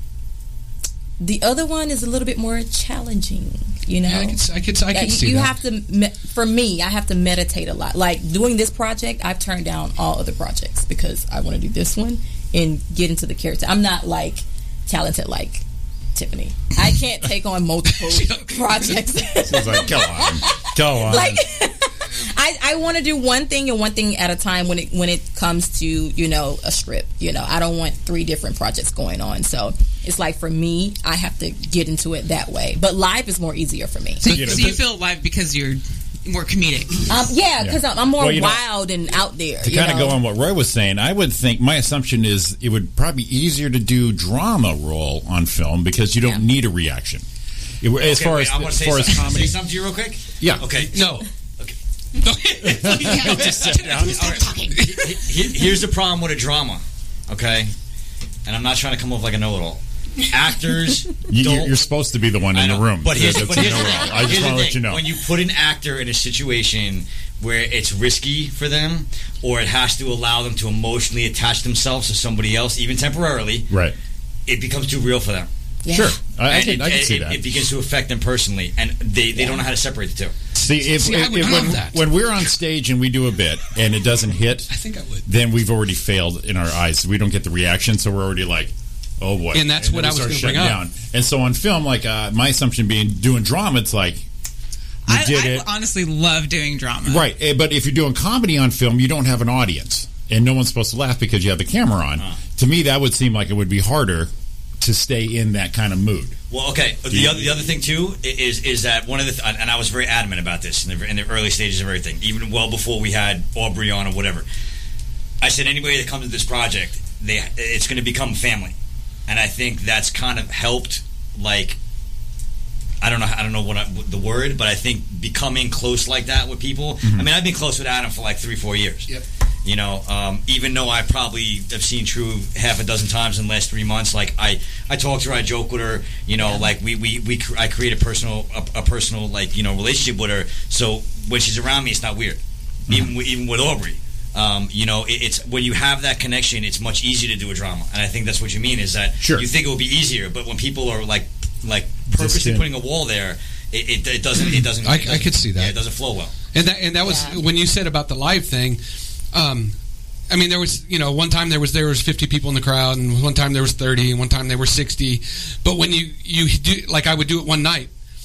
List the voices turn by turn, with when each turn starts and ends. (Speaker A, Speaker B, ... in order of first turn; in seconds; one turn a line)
Speaker A: 1.2-4.4
Speaker B: 4.0-5.5
Speaker A: 4.9-15.6
Speaker A: 16.1-34.4
Speaker B: 17.9-19.1
Speaker C: 19.4-21.4
Speaker D: 34.2-37.1
Speaker B: 34.2-34.8
Speaker C: 34.3-34.8
Speaker A: 37.1-40.2
Speaker C: 37.6-38.6
Speaker C: 39.6-47.2
Speaker C: 47.8-49.6
Speaker E: 48.0-51.8
Speaker C: 50.4-50.7
Speaker B: 50.9-51.3
Speaker B: 52.2-53.5
Speaker E: 52.3-57.7
Speaker C: 52.8-54.5
Speaker D: 52.9-54.9
Speaker B: 54.7-55.1
Speaker E: 58.5-61.7
Speaker C: 61.3-65.1
Speaker E: 62.5-73.7
Speaker C: 73.7-74.0
Speaker E: 74.5-75.5
Speaker A: 75.8-76.2
Speaker C: 75.9-77.4
Speaker E: 76.5-80.3
Speaker A: 79.3-79.6
Speaker C: 80.6-84.7
Speaker B: 80.8-82.0
Speaker B: 84.7-85.3
Speaker C: 85.2-94.2
Speaker B: 89.5-90.8
Speaker D: 95.1-97.3
Speaker C: 95.1-95.7
Speaker C: 97.1-106.3
Speaker E: 106.5-114.5
Speaker C: 107.1-107.7
Speaker E: 115.4-118.7
Speaker E: 119.3-121.8
Speaker E: 123.0-129.1
Speaker C: 127.0-127.3
Speaker E: 129.7-156.3
Speaker A: 136.4-136.7
Speaker C: 149.2-149.5
Speaker C: 152.1-152.7
Speaker B: 154.8-155.8
Speaker B: 156.5-158.8
Speaker A: 157.0-157.4
Speaker B: 159.3-159.8
Speaker B: 160.3-167.9